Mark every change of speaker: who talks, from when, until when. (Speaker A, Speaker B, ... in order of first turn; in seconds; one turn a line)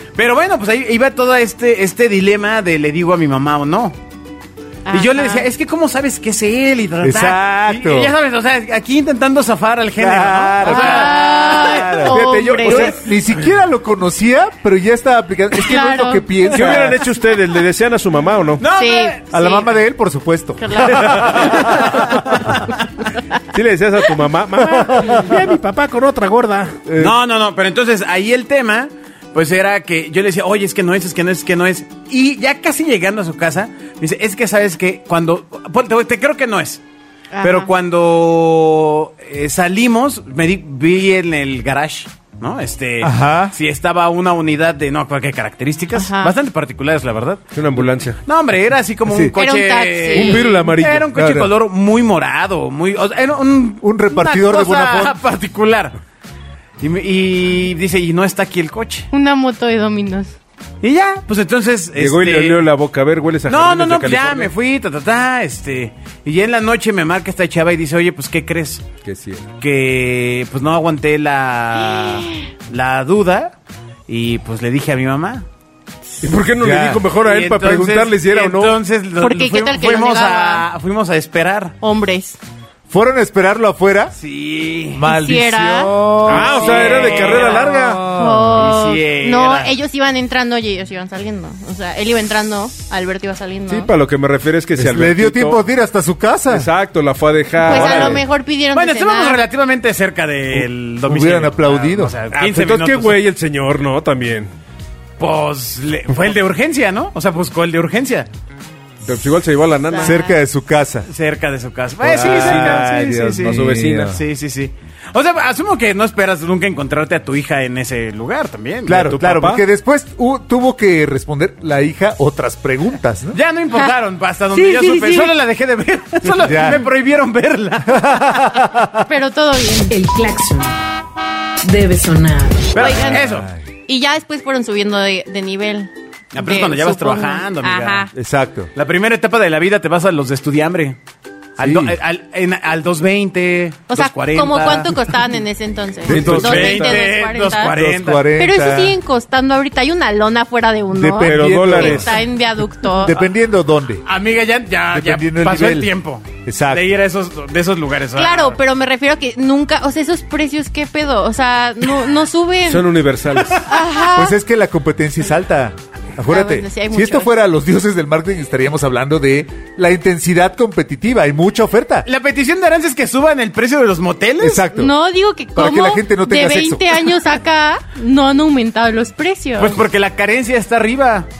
Speaker A: 0.1-4.0
Speaker B: 4.9-5.5
Speaker A: 4.9-12.1
Speaker C: 7.0-8.2
Speaker C: 10.0-17.0
Speaker B: 10.6-13.0
Speaker B: 15.6-16.3
Speaker D: 16.5-18.6
Speaker A: 18.6-19.2
Speaker B: 18.7-19.7
Speaker C: 19.3-22.4
Speaker B: 20.6-21.8
Speaker A: 21.0-22.6
Speaker D: 23.5-26.8
Speaker C: 24.7-25.2
Speaker C: 26.9-27.2
Speaker A: 27.0-36.8
Speaker B: 37.3-37.7
Speaker A: 37.4-47.5
Speaker C: 43.0-43.6
Speaker B: 45.9-46.4
Speaker D: 47.5-48.2
Speaker A: 48.2-56.0
Speaker C: 49.1-49.4
Speaker B: 49.4-50.5
Speaker D: 50.1-51.1
Speaker C: 51.1-51.5
Speaker C: 53.8-55.2
Speaker A: 56.8-59.1
Speaker B: 59.1-60.3
Speaker A: 60.8-62.6
Speaker D: 62.0-64.5
Speaker A: 63.5-68.9
Speaker D: 69.0-69.5
Speaker A: 69.6-73.5
Speaker B: 71.8-72.5
Speaker A: 74.1-75.5
Speaker D: 76.2-78.8
Speaker C: 76.6-77.1
Speaker A: 77.2-81.8
Speaker B: 79.2-80.7
Speaker B: 81.8-82.4
Speaker C: 82.9-84.2
Speaker A: 84.2-85.0
Speaker C: 84.9-87.0
Speaker B: 85.1-93.9
Speaker D: 86.3-88.0
Speaker A: 86.3-89.7
Speaker D: 93.7-95.6
Speaker C: 94.8-96.7
Speaker D: 96.5-98.2
Speaker C: 97.6-98.2
Speaker B: 97.6-99.4
Speaker A: 98.7-103.2
Speaker C: 100.5-102.2
Speaker D: 102.3-104.5
Speaker A: 105.2-108.3
Speaker D: 109.0-110.2
Speaker B: 109.9-110.4
Speaker C: 110.0-111.1
Speaker A: 111.1-119.1
Speaker C: 112.0-114.2
Speaker D: 112.2-114.2
Speaker C: 118.9-123.4
Speaker D: 119.0-119.6
Speaker A: 123.3-128.5
Speaker B: 124.5-125.3
Speaker C: 126.3-126.9
Speaker C: 127.9-129.1
Speaker B: 129.1-130.0
Speaker E: 129.9-130.7
Speaker E: 131.6-132.8
Speaker A: 132.7-133.5
Speaker B: 132.8-133.3
Speaker C: 132.9-133.7
Speaker B: 133.9-138.1
Speaker A: 136.3-138.1
Speaker C: 138.1-138.7
Speaker A: 138.8-141.0
Speaker A: 141.6-145.0
Speaker C: 141.6-142.0
Speaker B: 143.9-147.8
Speaker C: 146.0-146.8
Speaker D: 146.1-147.1
Speaker A: 146.1-148.3
Speaker C: 147.7-149.0
Speaker B: 148.4-153.2
Speaker C: 150.9-152.2
Speaker D: 151.2-152.2
Speaker C: 152.9-154.1
Speaker A: 154.1-158.6
Speaker C: 154.9-155.9
Speaker C: 156.4-156.9
Speaker B: 158.2-162.9
Speaker D: 162.7-163.7
Speaker B: 163.7-164.3
Speaker C: 164.1-172.1
Speaker B: 166.3-167.3
Speaker A: 172.1-174.7
Speaker C: 174.4-174.9
Speaker B: 174.7-179.8
Speaker C: 175.6-177.1
Speaker A: 179.6-181.3